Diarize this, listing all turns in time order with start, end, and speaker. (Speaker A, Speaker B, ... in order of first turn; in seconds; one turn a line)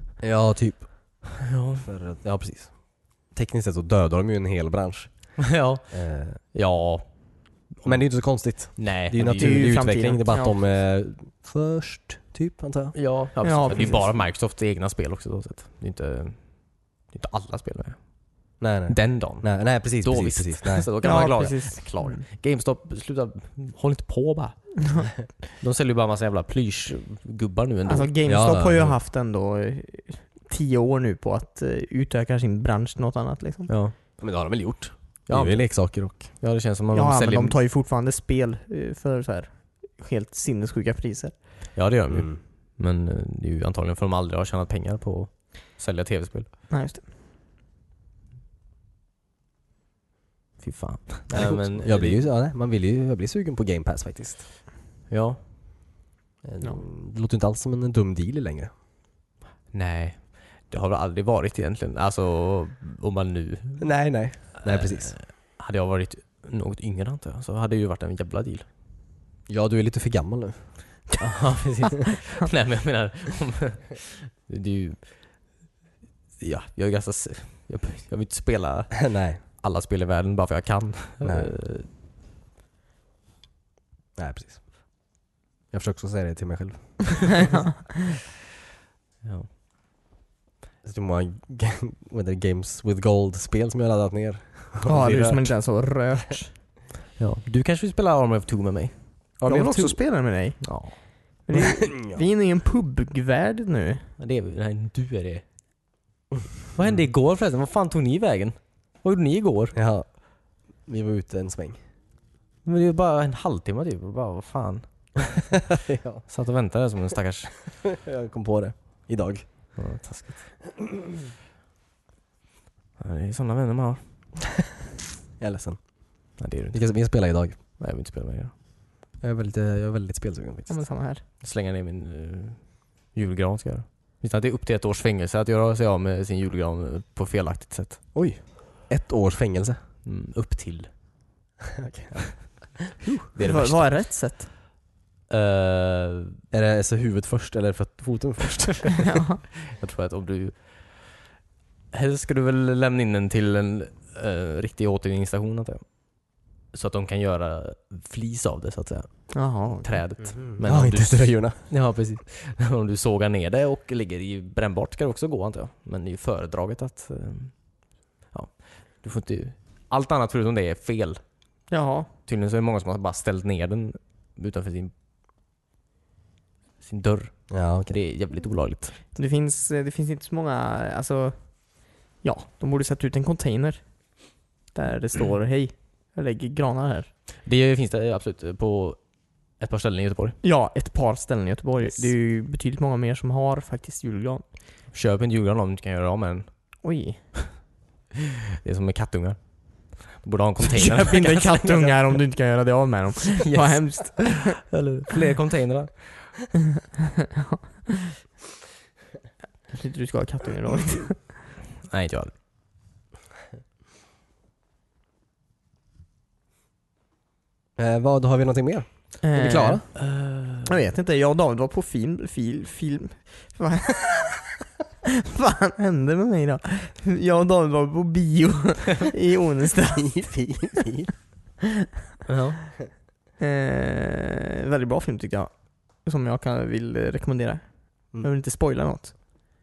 Speaker A: 0.2-6.4
Speaker B: 1.4-1.9
Speaker B: 5.4-9.8
Speaker A: 7.8-13.0
Speaker C: 9.3-10.6
Speaker B: 12.9-28.5
Speaker C: 13.4-14.1
Speaker A: 18.6-20.9
Speaker C: 21.0-22.2
Speaker C: 24.8-25.1
Speaker C: 27.9-33.7
Speaker A: 28.3-28.9
Speaker B: 33.7-34.0
Speaker A: 34.2-36.3
Speaker B: 35.3-37.6
Speaker C: 36.9-41.7
Speaker B: 41.7-46.5
Speaker A: 42.1-42.4
Speaker C: 46.7-47.1
Speaker B: 50.6-52.2
Speaker A: 51.3-54.5
Speaker B: 55.1-55.4
Speaker A: 56.4-58.7
Speaker B: 59.7-64.0
Speaker A: 63.8-65.1
Speaker B: 64.6-68.7
Speaker A: 69.5-70.6
Speaker B: 71.2-75.4
Speaker B: 76.4-81.9
Speaker A: 79.0-79.4
Speaker A: 81.2-81.5
Speaker A: 84.2-84.6
Speaker A: 85.7-87.5
Speaker C: 87.3-87.9
Speaker B: 89.2-89.5
Speaker A: 90.8-95.5
Speaker C: 94.8-96.5
Speaker B: 97.2-99.4
Speaker A: 99.4-100.0
Speaker C: 99.4-104.1
Speaker B: 100.6-101.0
Speaker A: 101.5-102.2
Speaker B: 104.2-105.4
Speaker B: 106.7-109.8
Speaker A: 109.7-111.8
Speaker B: 112.6-115.6
Speaker A: 115.7-116.2
Speaker B: 116.3-117.7
Speaker A: 117.7-119.5
Speaker B: 119.8-120.5
Speaker B: 123.0-124.0
Speaker A: 125.4-127.6
Speaker B: 126.4-127.0
Speaker B: 127.6-128.5
Speaker A: 129.2-130.8
Speaker C: 130.7-131.2
Speaker B: 131.4-138.3
Speaker A: 138.1-139.8
Speaker B: 140.0-140.9
Speaker A: 141.7-143.0
Speaker B: 143.1-143.9
Speaker C: 143.4-144.5
Speaker B: 145.3-146.4
Speaker A: 146.5-149.2
Speaker C: 149.0-149.4
Speaker B: 149.6-151.3
Speaker B: 151.9-171.2
Speaker C: 159.3-160.0
Speaker A: 160.2-161.6
Speaker C: 171.7-172.1
Speaker B: 172.3-174.9
Speaker B: 176.8-179.0
Speaker A: 177.5-178.0
Speaker C: 179.1-187.1
Speaker B: 187.4-190.4
Speaker C: 190.4-194.4
Speaker B: 194.9-196.8
Speaker C: 196.8-197.2
Speaker B: 198.6-201.9
Speaker C: 200.7-204.7
Speaker B: 203.4-206.4
Speaker C: 209.7-211.3
Speaker B: 211.9-212.3
Speaker A: 217.8-219.9
Speaker C: 219.2-220.1
Speaker B: 220.0-220.7
Speaker C: 220.6-224.6
Speaker C: 225.2-230.9
Speaker A: 229.9-231.1
Speaker B: 232.3-232.7
Speaker C: 233.4-239.1